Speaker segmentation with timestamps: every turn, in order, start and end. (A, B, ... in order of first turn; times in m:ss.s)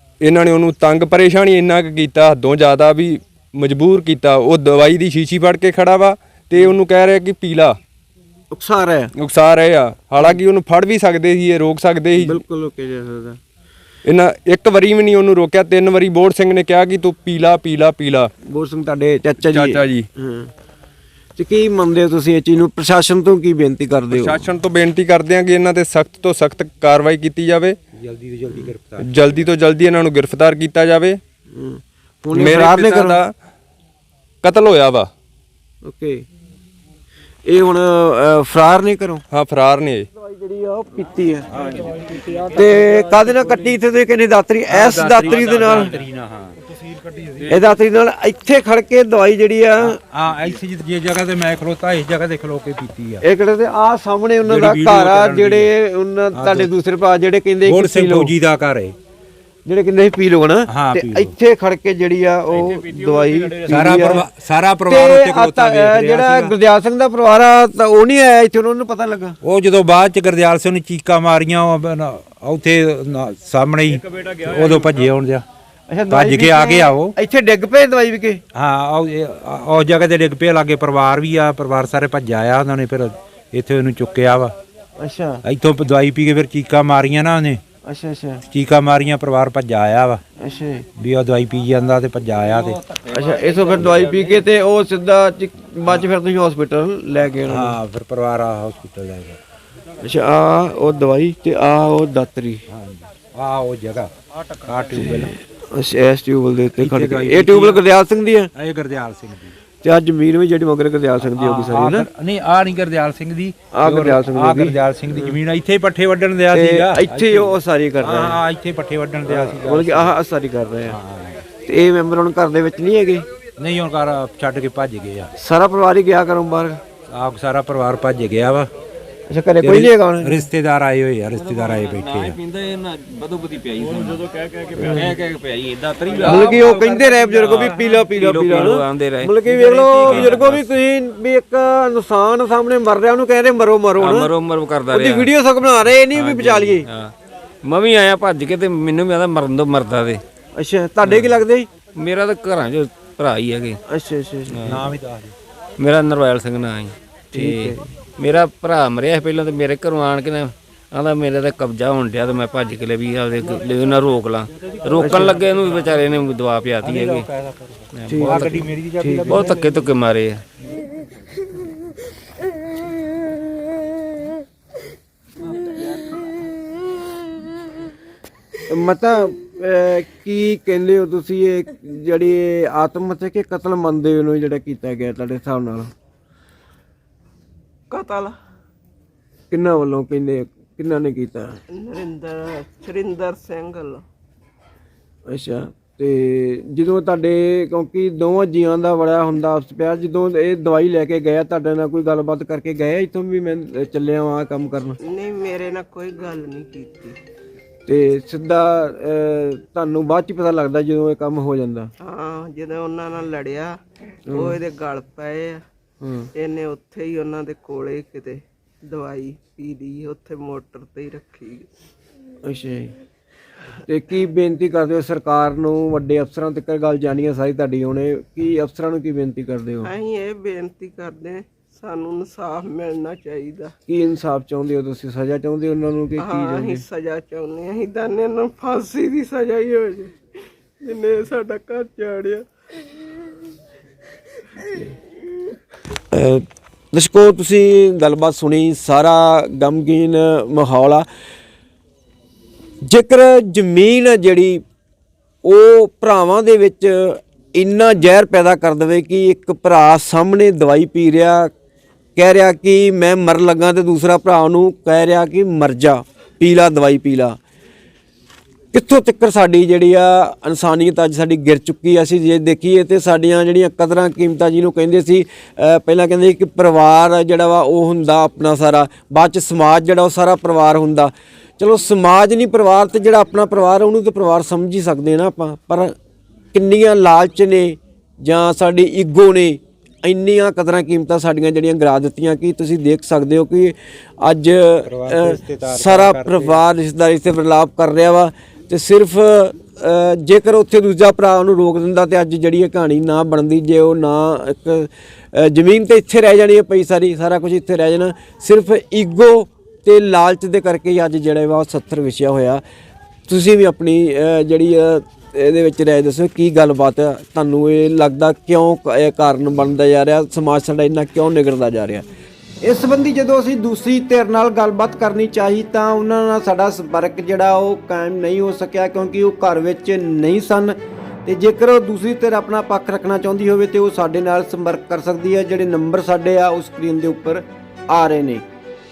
0:00.2-0:07.8 A
0:08.5-0:09.1 B
0:09.2-0:12.4 A
0:12.1-0:13.4 B
0:14.0-0:18.3 A
0:18.5-0:20.5 B
0:19.4-0:20.1 A
0:21.4-0:24.4 B
0:24.1-0:27.8 A
0:28.0-0:29.1 C
0:29.0-0:31.2 A
0:31.5-0:33.2 B
0:32.3-0:33.3 A
0:34.4-0:35.1 A
0:35.8-0:36.2 B
0:37.5-0:39.2 B
0:39.3-0:40.0 A
0:40.2-0:41.5 B
0:41.7-0:42.0 C
0:42.5-0:46.0 B
0:44.7-0:47.4 C
0:47.5-0:50.0 B
0:49.8-0:53.2 C
0:53.2-0:58.3 B
0:54.4-0:55.7 C
0:56.3-0:56.7 C
0:57.6-0:59.0 C
0:59.6-1:04.2 B
1:00.7-1:01.3 C
1:03.7-1:06.6 C
1:04.9-1:09.4 B
1:09.4-1:15.4 C
1:15.9-1:18.4 B
1:16.1-1:17.2 C
1:18.5-1:24.5 C
1:25.0-1:25.4 B
1:25.4-1:27.6 C
1:27.8-1:28.4 B
1:28.5-1:30.2 C
1:30.4-1:30.9 B
1:31.0-1:32.8 C
1:33.1-1:37.8 B
1:37.5-1:39.4 C
1:40.0-1:42.6 B
1:42.7-1:45.3 C
1:45.0-1:48.5 B
1:46.8-1:47.8 C
1:48.6-1:49.5 C
1:49.8-1:52.1 B
1:51.2-2:00.2 C
1:53.7-1:55.4 B
1:56.5-1:58.4 B
1:59.3-2:01.0 B
2:00.8-2:01.4 C
2:01.6-2:03.2 B
2:03.6-2:05.3 C
2:05.4-2:06.8 B
2:07.1-2:08.7 C
2:09.3-2:10.4 B
2:09.6-2:12.4 C
2:11.4-2:20.7 D
2:14.8-2:15.1 B
2:16.2-2:24.3 B
2:19.7-2:20.4 C
2:24.0-2:25.3 D
2:24.9-2:26.9 B
2:26.1-2:27.1 D
2:27.6-2:30.2 D
2:30.6-2:31.7 B
2:31.0-2:31.4 D
2:32.0-2:33.8 D
2:33.9-2:34.6 B
2:34.5-2:34.9 D
2:34.7-2:35.3 C
2:35.8-2:47.2 D
2:37.3-2:37.9 B
2:45.0-2:45.4 B
2:46.8-2:49.9 C
2:48.0-2:48.6 D
2:48.1-2:48.4 B
2:49.0-2:49.4 B
2:49.3-2:50.4 D
2:58.7-3:05.9 B
3:07.9-3:08.4 E
3:09.5-3:11.6 B
3:11.7-3:14.0 E
3:15.3-3:25.0 B
3:25.0-3:27.2 E
3:27.9-3:31.9 B
3:32.0-3:33.8 E
3:34.3-3:34.6 B
3:34.4-3:35.6 E
3:36.0-3:36.3 B
3:36.4-3:41.7 E
3:42.4-3:42.9 B
3:43.9-3:49.9 B
3:49.8-3:53.7 E
3:53.9-3:56.8 B
3:56.2-4:00.1 E
4:00.8-4:02.4 E
4:06.1-4:11.0 B
4:12.8-4:14.6 B
4:15.4-4:21.5 B
4:22.2-4:27.4 B
4:28.7-4:45.9 B
4:46.5-5:12.6 B
4:54.9-4:56.6 C
5:13.3-5:22.0 B
5:22.6-5:38.5 B